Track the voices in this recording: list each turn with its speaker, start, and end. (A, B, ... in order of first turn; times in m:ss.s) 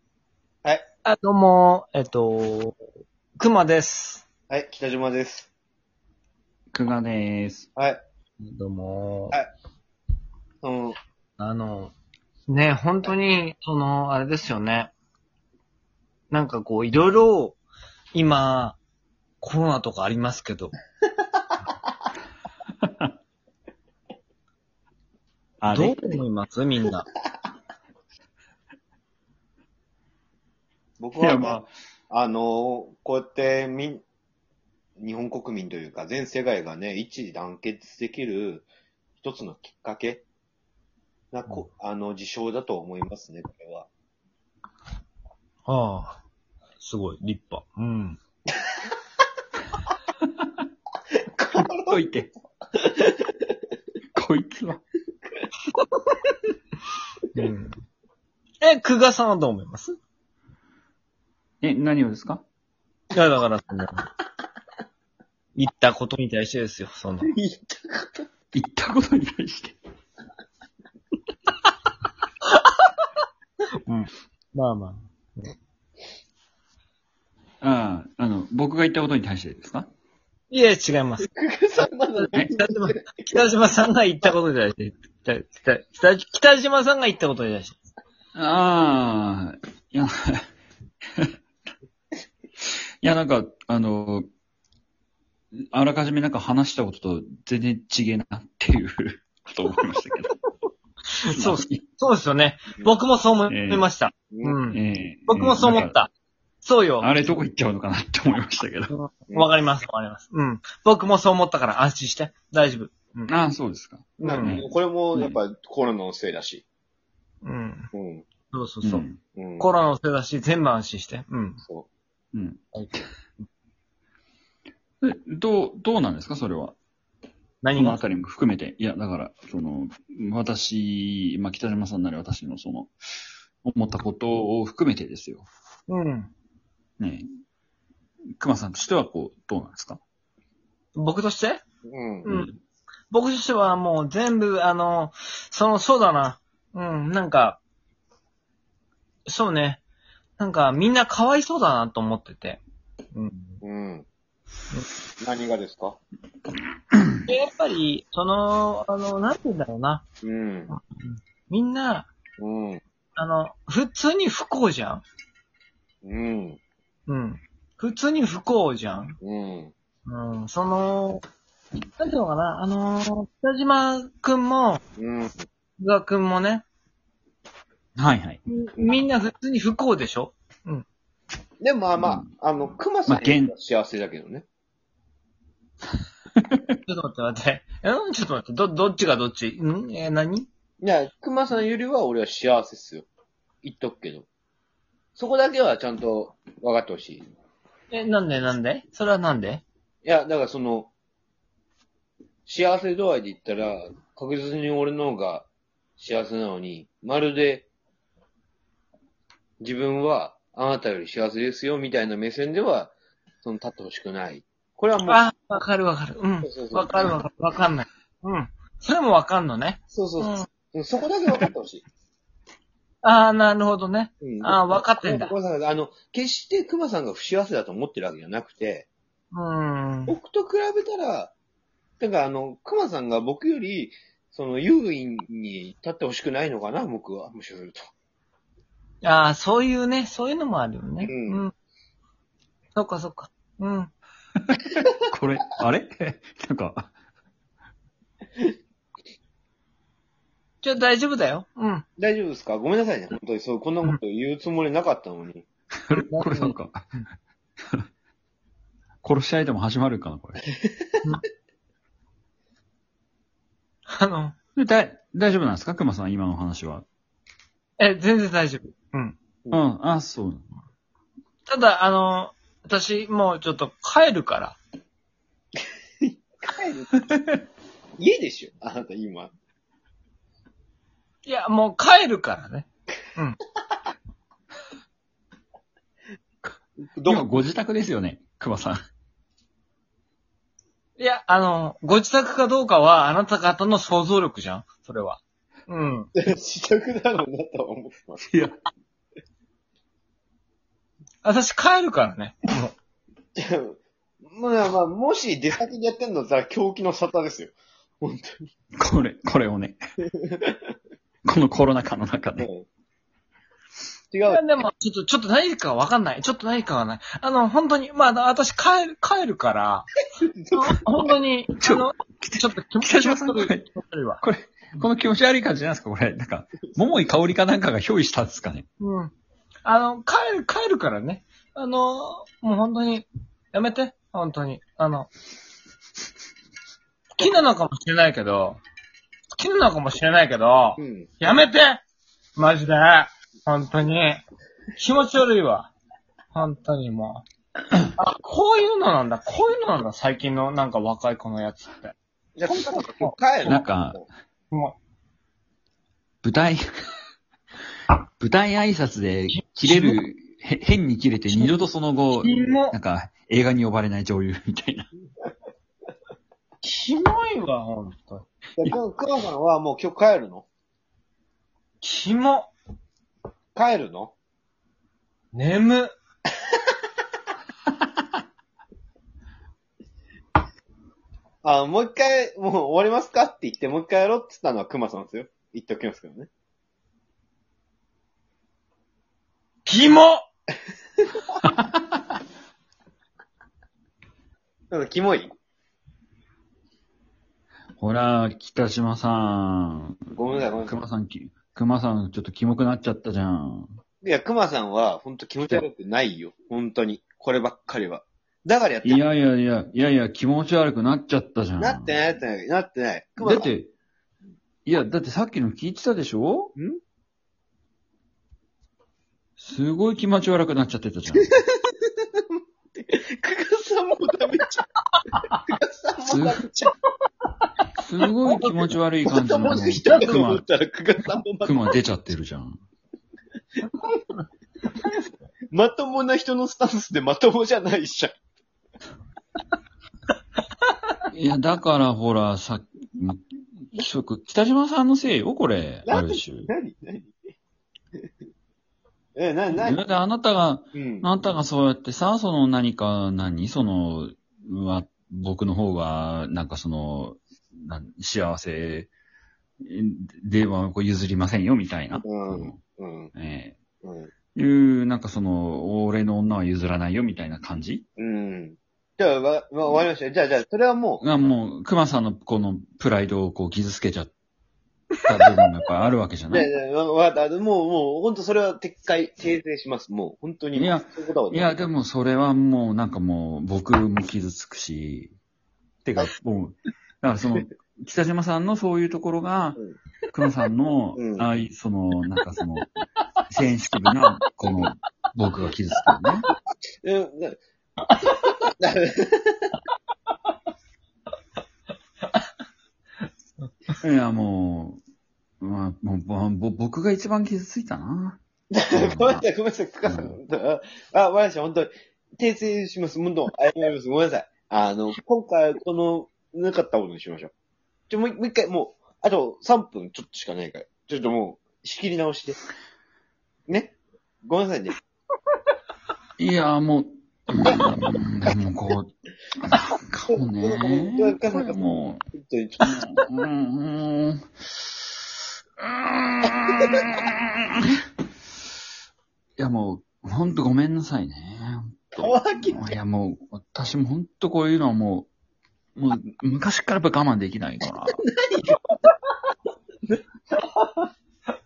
0:01.0-0:02.8 A
0:03.4-0:04.2 A
0:04.5-0:05.5 B
0:06.7-0:07.7 C
0:08.4-0:09.4 A
0:10.6-0:11.0 B
0:11.4-0:11.9 A
0:12.5-0:14.9 A
0:16.3-0:17.6 A
0:18.1-0:18.8 A
0:19.4-0:20.7 A
0:22.8-0:23.1 C
0:25.6-0:26.2 C
0:25.7-0:27.1 A
0:31.0-0:34.0 B
0:31.2-0:31.7 C
0:35.0-0:40.2 B
0:41.3-0:43.9 B
0:45.7-0:46.2 A
0:46.8-0:48.2 A
0:51.3-0:52.0 B
0:51.8-0:52.3 C
0:52.8-0:53.1 B
0:54.1-0:54.8 C
0:57.3-0:57.7 A
0:58.6-0:59.9 A
1:01.6-1:02.4 C
1:03.1-1:03.9 A
1:05.6-1:07.3 A
1:07.2-1:08.3 B
1:08.5-1:09.8 C
1:13.9-1:15.5 A
1:17.6-1:19.9 C
1:20.5-1:21.3 A
1:21.3-1:23.4 B
1:22.2-1:27.8 A
1:28.3-1:30.4 C
1:32.6-1:34.2 C
1:35.6-1:40.3 C
1:41.2-1:46.1 A
1:41.3-1:41.8 C
1:43.5-1:43.9 C
1:44.3-1:44.6 B
1:44.7-1:45.9 C
1:46.6-1:47.1 A
1:47.0-1:48.9 C
1:48.9-1:53.3 A
1:53.3-1:55.3 C
1:54.2-1:56.6 B
1:54.2-1:54.6 A
1:57.4-1:57.9 A
1:57.9-1:58.3 B
1:58.5-1:59.0 A
1:58.8-1:59.2 C
1:59.3-1:59.7 B
1:59.6-2:01.6 A
2:01.6-2:01.9 B
2:02.3-2:03.0 C
2:05.0-2:06.8 C
2:07.6-2:08.0 A
2:07.8-2:12.9 C
2:13.6-2:15.5 C
2:15.9-2:16.3 A
2:17.0-2:17.2 C
2:18.4-2:20.0 C
2:20.9-2:21.6 A
2:21.9-2:22.3 B
2:22.2-2:22.5 A
2:23.1-2:27.6 A
2:29.2-2:29.8 A
2:30.4-2:32.6 A
2:33.1-2:33.6 A
2:33.6-2:34.0 B
2:35.2-2:36.0 B
2:36.9-2:37.2 C
2:37.3-2:40.0 A
2:40.2-2:40.7 B
2:40.7-2:42.1 A
2:42.4-2:42.8 B
2:43.2-2:45.0 A
2:46.0-2:46.6 B
2:47.1-2:49.2 A
2:49.2-2:49.7 B
2:50.0-2:51.2 A
2:52.0-2:54.8 A
2:55.0-2:55.4 B
2:55.8-2:56.6 A
2:58.0-2:58.4 C
2:58.5-3:00.8 A
3:01.6-3:04.4 B
3:02.0-3:02.2 C
3:03.1-3:03.5 C
3:06.4-3:06.6 C
3:06.8-3:10.5 A
3:10.8-3:13.1 B
3:13.6-3:14.3 B
3:15.2-3:17.2 B
3:17.9-3:19.6 A
3:20.0-3:20.9 B
3:22.4-3:27.7 B
3:29.6-3:35.2 B
3:35.0-3:40.5 A
3:36.4-3:37.2 B
3:39.9-3:41.8 B
3:43.0-3:45.3 A
3:44.2-3:48.9 B
3:49.3-3:50.1 A
3:50.1-3:51.3 B
3:52.0-3:57.8 B
3:59.0-4:01.5 A
4:01.0-4:01.4 B
4:02.7-4:03.9 A
4:04.5-4:06.9 C
4:10.6-4:11.8 A
4:12.0-4:15.4 B
4:15.8-4:16.9 C
4:15.9-4:17.0 A
4:19.0-4:20.4 C
4:23.9-4:24.3 A
4:24.6-4:26.8 C
4:27.8-4:29.2 A
4:29.5-4:30.4 C
4:31.5-4:34.6 A
4:36.0-4:37.0 B
4:37.1-4:37.4 C
4:38.0-4:39.3 B
4:41.2-4:43.4 A
4:46.9-4:47.4 B
4:47.0-4:48.8 C
4:51.0-4:56.1 A
4:56.2-4:58.2 B
4:58.3-4:58.5 C
5:01.2-5:02.7 A
5:03.4-5:08.4 B
5:08.8-5:09.8 C
5:11.2-5:12.5 C
5:12.4-5:12.7 B
5:14.1-5:14.4 B
5:14.3-5:19.9 A
5:20.2-5:21.1 B
5:20.6-5:24.2 A
5:21.6-5:23.6 C
5:24.2-5:28.6 C
5:28.8-5:29.1 A
5:29.6-5:35.1 A
5:37.2-5:38.6 A
5:39.3-5:41.8 A
5:40.8-5:41.1 B
5:42.4-5:44.2 A
5:44.8-5:45.7 A
5:46.3-5:47.2 A
5:48.0-5:51.9 A
5:52.4-5:54.0 B
5:52.5-5:53.6 A
5:53.5-5:54.0 C
5:54.5-5:54.8 A
5:56.2-5:56.6 C
5:58.2-6:04.9 C
5:59.3-6:00.0 A
6:01.3-6:01.6 A
6:02.2-6:02.8 A
6:06.6-6:08.2 A
6:08.6-6:10.5 B
6:11.8-6:12.5 A
6:13.5-6:14.1 B
6:15.3-6:15.9 A
6:21.4-6:26.3 B
6:29.6-6:30.2 A
6:31.4-6:32.0 C
6:34.7-6:35.3 B
6:37.8-6:40.0 C
6:40.1-6:40.8 B
6:40.6-6:43.7 C
6:44.0-6:49.0 B
6:48.8-6:52.0 C
6:51.6-6:53.5 B
6:53.2-6:53.7 C
6:54.6-6:56.5 C
6:59.4-7:01.3 C
7:01.2-7:02.1 B
7:02.8-7:04.7 B
7:05.5-7:06.7 B
7:06.0-7:06.4 C
7:07.8-7:10.4 C
7:09.0-7:11.7 B
7:09.4-7:10.2 A
7:11.4-7:12.6 C
7:15.5-7:18.1 B
7:21.1-7:26.5 C
7:25.8-7:27.1 B
7:29.2-7:29.8 B
7:29.5-7:38.9 C
7:30.7-7:31.1 B
7:39.6-7:42.6 C
7:42.0-7:43.1 B
7:43.1-7:43.6 C
7:43.8-7:44.1 B
7:44.3-7:47.8 C
7:48.0-7:51.0 B
7:51.0-7:54.1 C
7:55.0-7:56.5 C
7:56.3-8:01.7 B
8:00.5-8:05.1 C
8:05.8-8:09.6 C
8:10.1-8:12.7 C
8:11.0-8:11.3 B
8:13.3-8:16.3 C
8:16.8-8:17.4 B
8:18.6-8:19.5 B
8:23.8-8:24.8 C
8:25.4-8:28.2 C
8:28.5-8:37.3 B
8:28.7-8:29.2 C
8:29.8-8:30.2 C
8:37.9-8:42.4 B
8:43.5-8:44.8 B
8:46.2-8:48.9 C
8:49.4-8:52.0 C
8:50.1-8:52.8 B
8:52.6-8:54.8 C
8:55.6-8:57.6 C
8:59.4-9:05.1 C
9:02.0-9:02.7 B
9:05.8-9:08.0 C
9:08.0-9:08.6 B